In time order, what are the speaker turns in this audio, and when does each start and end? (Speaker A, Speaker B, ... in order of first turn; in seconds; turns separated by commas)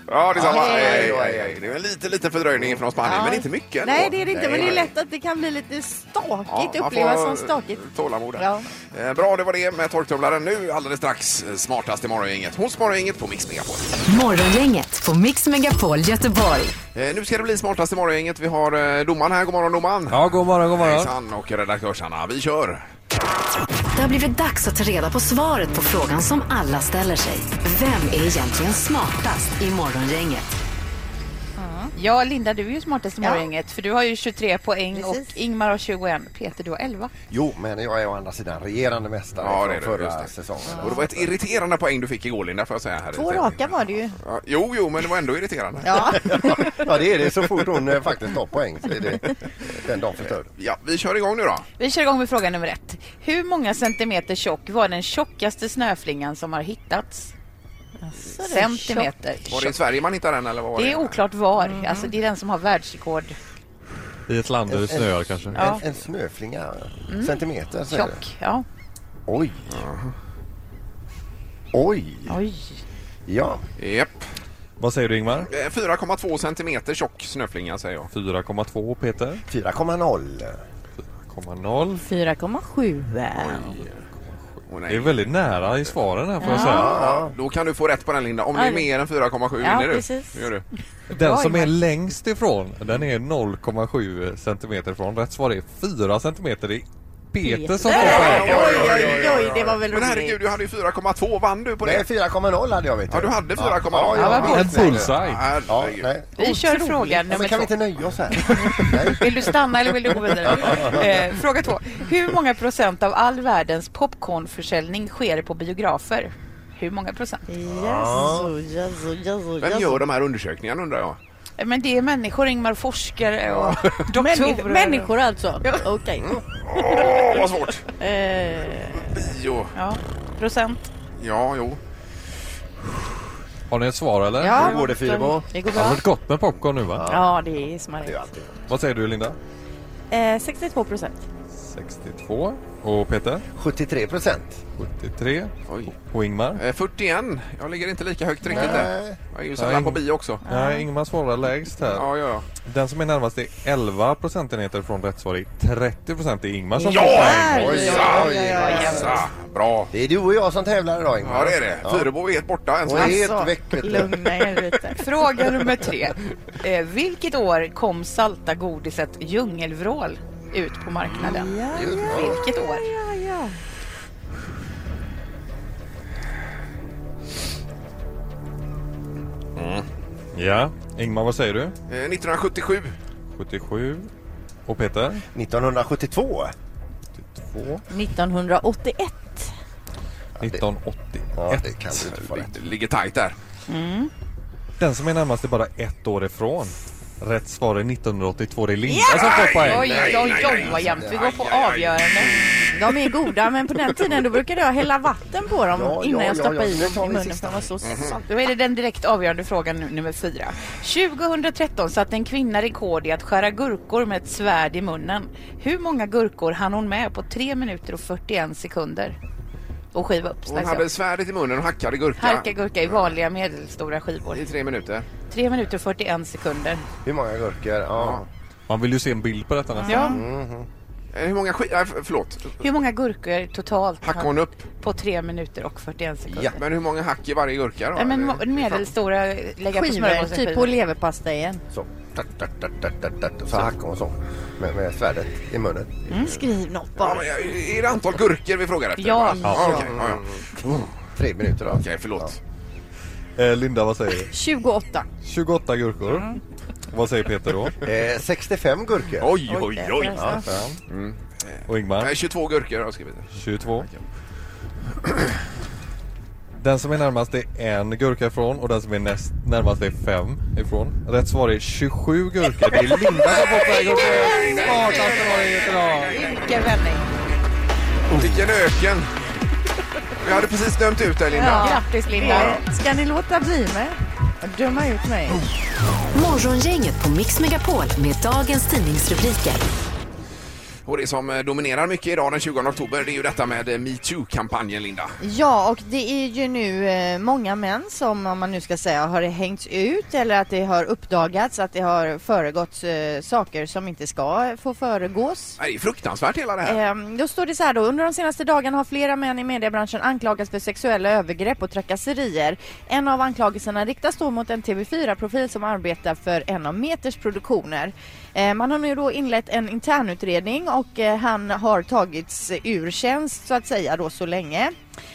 Speaker A: 0.1-4.8, Speaker B: 0.3-1.6, Speaker C: 0.4-1.2, Speaker C: 3.0-7.8, Speaker B: 4.3-4.9, Speaker A: 6.5-13.9, Speaker C: 8.4-8.7, Speaker D: 14.1-16.8, Speaker A: 16.9-22.8, Speaker E: 20.1-21.1, Speaker D: 23.9-30.6, Speaker C: 31.6-31.9, Speaker F: 31.9-37.1, Speaker C: 35.0-35.3, Speaker B: 37.3-41.3, Speaker A: 39.4-43.6, Speaker C: 40.7-41.0, Speaker C: 43.1-44.2, Speaker A: 44.2-46.6, Speaker C: 45.8-46.8, Speaker B: 46.1-50.5, Speaker A: 50.5-51.7, Speaker F: 51.8-57.3, Speaker C: 58.0-59.1, Speaker F: 58.4-59.8, Speaker A: 59.5-61.2, Speaker F: 60.8-63.4, Speaker C: 61.6-62.1, Speaker E: 64.3-65.7, Speaker B: 64.7-68.2, Speaker F: 65.5-65.8, Speaker F: 67.1-68.7, Speaker B: 69.3-69.8, Speaker A: 69.7-70.1, Speaker B: 71.7-72.4, Speaker F: 72.3-72.8, Speaker B: 73.3-73.6, Speaker A: 73.8-74.2, Speaker E: 74.8-75.5, Speaker A: 75.5-78.1, Speaker E: 78.1-79.4, Speaker B: 79.5-80.6, Speaker E: 81.0-82.1, Speaker C: 82.0-83.7, Speaker A: 83.4-84.0, Speaker A: 84.7-85.6, Speaker E: 84.9-87.0, Speaker C: 86.4-86.9, Speaker B: 86.5-87.3, Speaker A: 86.5-90.7, Speaker C: 88.5-88.9, Speaker C: 89.6-90.5, Speaker E: 91.1-99.0, Speaker C: 91.2-91.7, Speaker C: 97.4-100.4, Speaker A: 98.0-102.1, Speaker B: 98.3-99.2, Speaker B: 101.8-105.1, Speaker A: 103.1-106.1, Speaker E: 104.2-105.4, Speaker F: 104.2-105.0, Speaker B: 105.7-106.5, Speaker F: 106.4-107.7, Speaker C: 106.4-107.2, Speaker B: 107.2-109.3, Speaker C: 108.5-108.8, Speaker F: 109.1-117.4, Speaker B: 110.5-111.3, Speaker C: 117.5-120.0, Speaker B: 117.7-118.5, Speaker A: 119.6-121.2, Speaker F: 121.6-125.8, Speaker A: 123.5-124.0, Speaker C: 124.1-127.3, Speaker A: 126.6-127.9, Speaker C: 128.0-129.1, Speaker A: 128.9-129.8, Speaker F: 129.8-130.8, Speaker A: 131.2-131.8, Speaker E: 133.7-134.7, Speaker C: 134.4-136.0, Speaker B: 134.5-135.5, Speaker F: 134.8-135.2, Speaker E: 135.7-137.1, Speaker B: 136.9-137.3, Speaker C: 137.1-138.2, Speaker B: 138.0-138.6, Speaker E: 138.7-139.4, Speaker C: 140.1-141.2, Speaker E: 141.5-143.5, Speaker B: 143.6-144.6, Speaker E: 144.8-146.6, Speaker A: 145.7-145.9, Speaker A: 146.6-150.4, Speaker B: 148.5-149.2, Speaker C: 148.5-148.8, Speaker E: 149.6-157.8, Speaker C: 150.4-150.9, Speaker A: 151.9-152.5, Speaker C: 156.8-159.2, Speaker A: 156.9-159.9, Speaker B: 157.3-159.2, Speaker F: 157.7-159.2, Speaker B: 159.9-162.1, Speaker A: 161.2-163.3, Speaker B: 162.8-164.3, Speaker C: 162.9-165.0, Speaker F: 164.9-172.9, Speaker C: 171.2-173.6, Speaker B: 171.7-172.4, Speaker A: 179.6-179.8, Speaker E: 180.3-181.8, Speaker A: 181.9-183.0, Speaker E: 183.3-184.1, Speaker E: 184.7-185.2, Speaker B: 185.3-186.5, Speaker E: 187.2-187.8, Speaker C: 187.9-189.5, Speaker E: 190.4-192.5, Speaker B: 191.3-192.6, Speaker A: 192.4-193.3, Speaker F: 193.7-194.0, Speaker E: 194.8-200.0, Speaker C: 198.9-199.3, Speaker A: 199.1-202.3, Speaker F: 199.6-202.3, Speaker B: 199.8-201.2, Speaker C: 202.7-208.2, Speaker B: 205.7-207.9, Speaker A: 207.8-208.1, Speaker F: 208.2-219.2, Speaker F: 219.9-220.9, Speaker A: 220.5-222.5, Speaker F: 222.2-224.5, Speaker A: 224.3-225.1, Speaker F: 225.3-226.8, Speaker B: 227.1-228.3, Speaker A: 228.0-228.2, Speaker E: 228.7-230.1, Speaker C: 229.8-230.2, Speaker F: 229.9-230.2, Speaker B: 230.1-230.7, Speaker A: 231.1-232.6, Speaker F: 232.6-236.6, Speaker A: 234.0-234.7, Speaker A: 236.3-238.9, Speaker F: 237.9-240.8, Speaker C: 239.7-241.6, Speaker B: 241.7-246.0, Speaker C: 246.1-247.2, Speaker A: 247.0-250.8, Speaker F: 249.0-249.8, Speaker E: 249.4-249.8, Speaker B: 249.7-252.3, Speaker A: 251.7-252.4, Speaker E: 253.4-254.3, Speaker C: 254.3-255.1, Speaker E: 255.2-256.4, Speaker C: 256.1-256.4, Speaker E: 256.9-257.8, Speaker B: 257.8-259.4, Speaker A: 259.2-264.0, Speaker C: 259.5-260.5, Speaker B: 260.1-260.7, Speaker E: 261.7-262.1, Speaker E: 263.3-263.9, Speaker E: 266.6-274.5, Speaker F: 273.7-277.1, Speaker E: 275.2-276.0, Speaker A: 278.1-279.1, Speaker B: 278.1-278.4, Speaker A: 280.2-281.7, Speaker C: 281.3-285.4, Speaker F: 281.4-282.6, Speaker D: 286.1-289.6, Speaker A: 290.9-295.2, Speaker C: 295.2-305.6, Speaker A: 305.6-306.8, Speaker C: 306.6-324.7